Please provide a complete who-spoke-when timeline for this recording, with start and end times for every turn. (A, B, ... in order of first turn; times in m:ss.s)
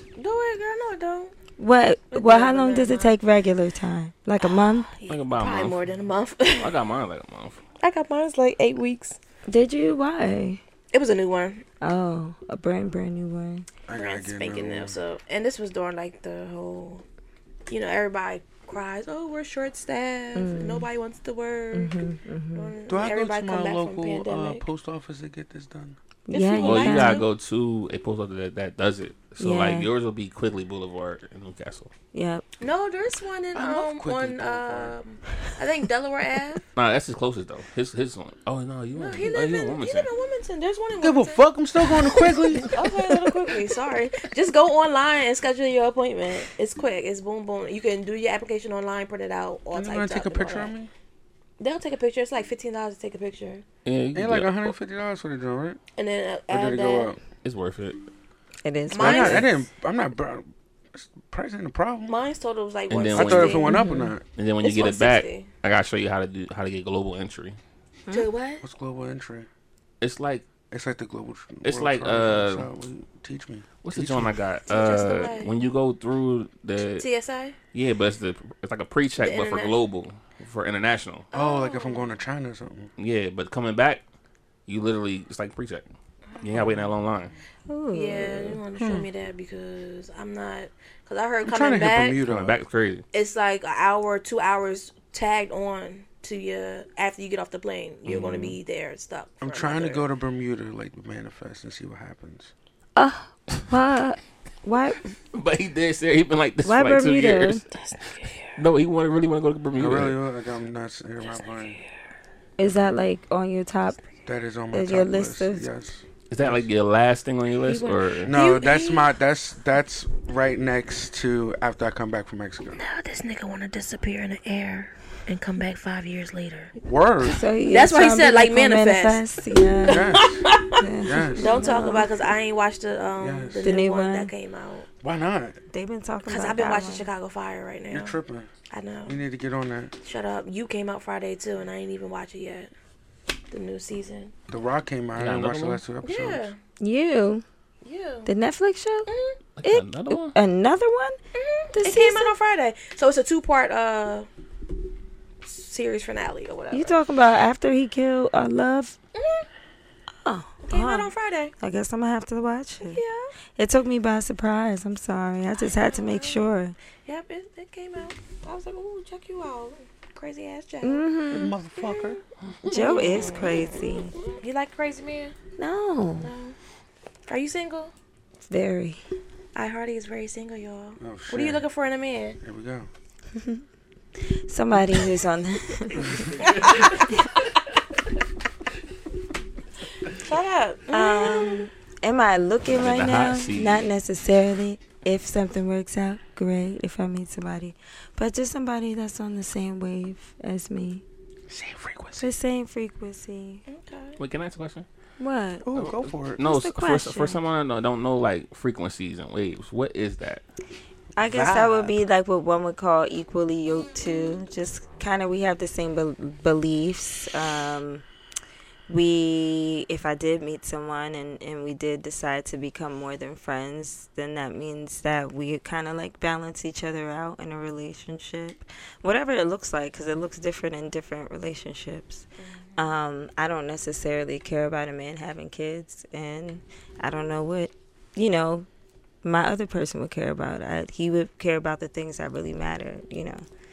0:00.2-0:01.3 A
0:01.6-0:04.9 B
0:02.1-0:03.2 A
0:04.4-0:06.7 A
0:05.1-0:05.8 C
0:06.6-0:07.6 C
0:07.8-0:09.2 A
0:09.5-0:10.6 B
0:10.9-0:11.6 A
0:11.8-0:13.7 B
0:13.9-0:15.0 D
0:13.9-0:17.0 A
0:17.7-0:22.0 A
0:20.4-0:20.9 B
0:21.7-0:22.7 B
0:22.5-0:24.6 A
0:22.9-0:26.0 D
0:26.3-0:27.2 B
0:26.3-0:27.3 A
0:26.6-0:31.9 C
0:29.4-0:29.9 B
0:32.1-0:32.4 B
0:32.6-0:36.6 A
0:33.5-0:34.9 D
0:36.7-0:40.1 C
0:38.9-0:50.7 A
0:41.0-0:43.4 D
0:49.7-0:50.9 D
0:51.6-0:53.6 A
0:53.8-0:54.7 C
0:54.1-0:55.8 D
0:56.0-0:57.1 A
0:56.5-0:57.2 D
0:57.4-0:58.0 C
0:58.6-0:59.5 B
0:58.9-0:59.6 A
0:59.0-1:02.2 D
1:02.1-1:03.8 A
1:02.9-1:03.6 C
1:03.1-1:04.2 D
1:03.7-1:04.1 B
1:04.4-1:07.6 C
1:04.6-1:05.5 A
1:08.1-1:08.6 A
1:08.6-1:09.5 D
1:10.0-1:10.4 C
1:10.7-1:14.4 D
1:11.6-1:12.7 C
1:13.8-1:17.0 C
1:14.7-1:15.5 A
1:17.0-1:17.6 A
1:17.7-1:21.3 C
1:19.2-1:19.8 A
1:21.3-1:22.1 A
1:21.3-1:22.9 D
1:23.0-1:24.0 C
1:24.7-1:25.9 C
1:26.4-1:27.3 C
1:27.7-1:28.6 B
1:27.9-1:32.2 A
1:28.8-1:29.1 D
1:31.4-1:32.6 D
1:32.2-1:33.0 C
1:33.1-1:40.0 A
1:38.1-1:38.6 C
1:39.4-1:42.5 D
1:43.0-1:45.1 B
1:45.3-1:47.6 C
1:46.6-1:47.6 B
1:47.7-1:48.6 A
1:48.5-1:50.2 C
1:49.8-1:51.8 D
1:51.4-1:51.8 A
1:52.6-1:54.0 B
1:54.2-1:56.6 D
1:54.7-1:55.6 B
1:56.3-1:58.4 C
1:57.6-1:59.1 A
1:58.3-2:02.8 D
2:02.8-2:06.7 A
2:06.8-2:07.4 D
2:07.2-2:12.1 B
2:07.6-2:09.2 A
2:09.7-2:10.8 A
2:09.8-2:10.4 D
2:11.0-2:11.9 D
2:11.3-2:14.9 A
2:13.2-2:13.6 D
2:13.6-2:14.3 B
2:15.0-2:15.6 D
2:15.7-2:17.1 B
2:16.2-2:18.2 A
2:17.9-2:18.5 D
2:18.7-2:19.2 A
2:19.1-2:19.9 D
2:20.0-2:22.7 A
2:23.5-2:24.3 A
2:24.5-2:26.5 D
2:25.2-2:25.8 C
2:26.0-2:26.6 A
2:26.8-2:27.4 B
2:27.8-2:28.3 A
2:28.2-2:29.1 B
2:29.1-2:29.4 A
2:29.6-2:30.3 C
2:29.6-2:31.2 B
2:31.3-2:34.3 A
2:31.7-2:32.3 B
2:35.4-2:37.0 A
2:36.7-2:39.0 B
2:39.1-2:39.4 A
2:40.2-2:43.0 B
2:40.6-2:41.5 A
2:42.8-2:43.3 A
2:43.6-2:46.8 B
2:45.6-2:46.4 A
2:47.0-2:51.1 A
2:50.8-2:51.5 B
2:51.3-2:52.2 D
2:51.8-2:55.3 A
2:52.7-2:54.1 B
2:55.6-2:56.3 B
2:56.2-2:56.6 A
2:57.3-2:57.9 A
2:58.5-2:59.0 B
2:59.5-3:02.4 A
3:01.0-3:01.6 D
3:02.4-3:02.9 D
3:03.4-3:03.6 B
3:04.5-3:07.2 B
3:06.4-3:07.0 A
3:10.1-3:11.7 A
3:10.9-3:21.0 B
3:12.7-3:13.8 C
3:21.5-3:22.3 D
3:22.2-3:23.6 B
3:23.7-3:24.2 A
3:24.2-3:24.8 C
3:25.2-3:25.7 B
3:25.6-3:26.4 D
3:25.7-3:30.4 C
3:26.4-3:27.4 B
3:31.2-3:38.0 B
3:31.2-3:32.0 D
3:38.9-3:52.2 B
3:52.4-3:52.8 A
3:52.8-3:58.7 B
3:59.2-4:03.4 B